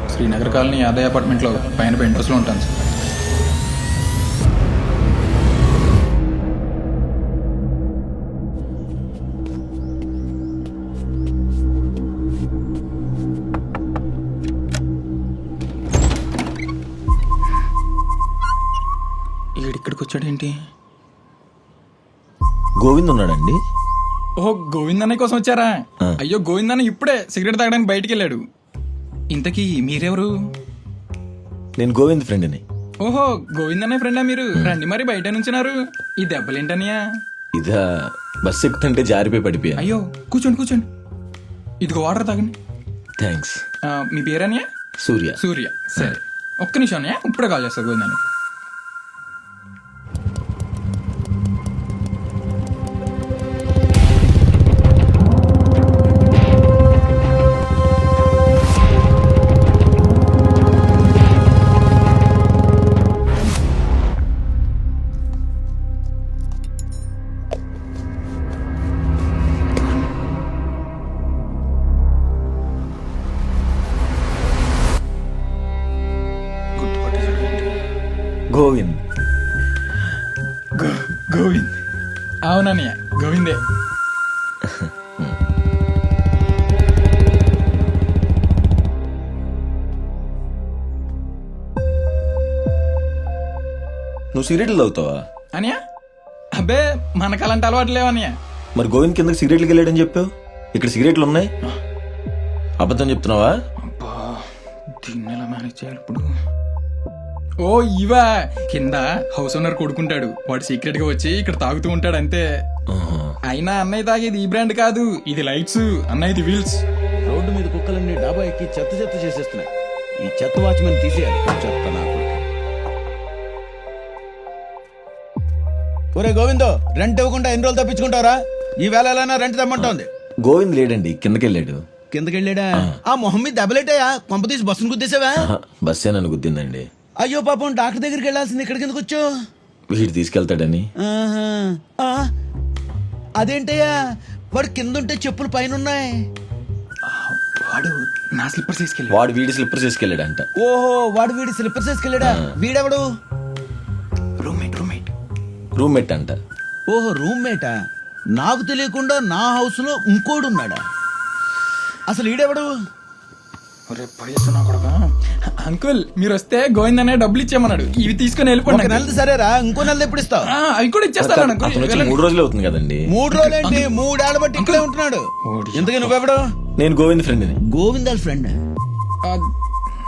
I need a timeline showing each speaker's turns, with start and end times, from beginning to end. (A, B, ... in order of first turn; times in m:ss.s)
0:00.1-0:02.8 A
0:19.6-0:20.5 A
0:22.8-0:23.6 B
0:24.4-0:28.4 A
0:29.3-0:30.3 A
0:31.8-0:32.6 B
0:33.0-0:37.0 A
0:37.5-0:39.9 B
0:39.8-0:40.9 A
0:41.8-0:42.5 A
0:43.2-0:43.6 B
0:43.9-0:44.6 A
0:45.0-0:45.4 B
0:45.4-0:48.2 A
1:16.8-1:17.8 A
1:18.5-1:19.0 B
1:20.8-1:21.8 A
1:22.4-1:23.6 A
1:24.6-1:25.4 B
1:34.3-1:35.2 B
1:35.5-1:35.8 A
1:36.5-1:38.4 A
1:38.8-1:41.5 B
1:42.8-1:43.6 B
1:43.8-1:44.5 A
1:45.0-1:46.3 A
1:47.6-1:52.4 A
1:52.9-1:53.4 B
1:53.5-1:56.8 A
1:57.3-1:59.7 C
2:00.2-2:02.4 C
2:06.2-2:10.1 C
2:09.8-2:11.8 B
2:12.1-2:15.5 C
2:15.4-2:16.9 B
2:17.2-2:19.2 C
2:19.9-2:20.9 B
2:21.0-2:22.3 C
2:23.4-2:23.9 C
2:24.5-2:26.1 C
2:27.1-2:29.2 A
2:29.1-2:30.5 B
2:30.6-2:33.0 C
2:34.4-2:35.1 A
2:35.8-2:36.4 B
2:36.9-2:37.7 C
2:38.4-2:40.8 C
2:42.1-2:42.7 C
2:43.9-2:49.1 A
2:48.7-2:50.5 C
2:50.4-2:52.2 A
2:51.2-2:53.0 B
2:53.1-2:55.2 C
2:53.3-2:53.9 A
2:54.6-2:54.9 A
2:55.5-2:56.2 A
2:55.8-2:56.4 C
2:56.8-2:57.6 B
2:57.7-2:58.5 C
2:59.2-2:59.5 A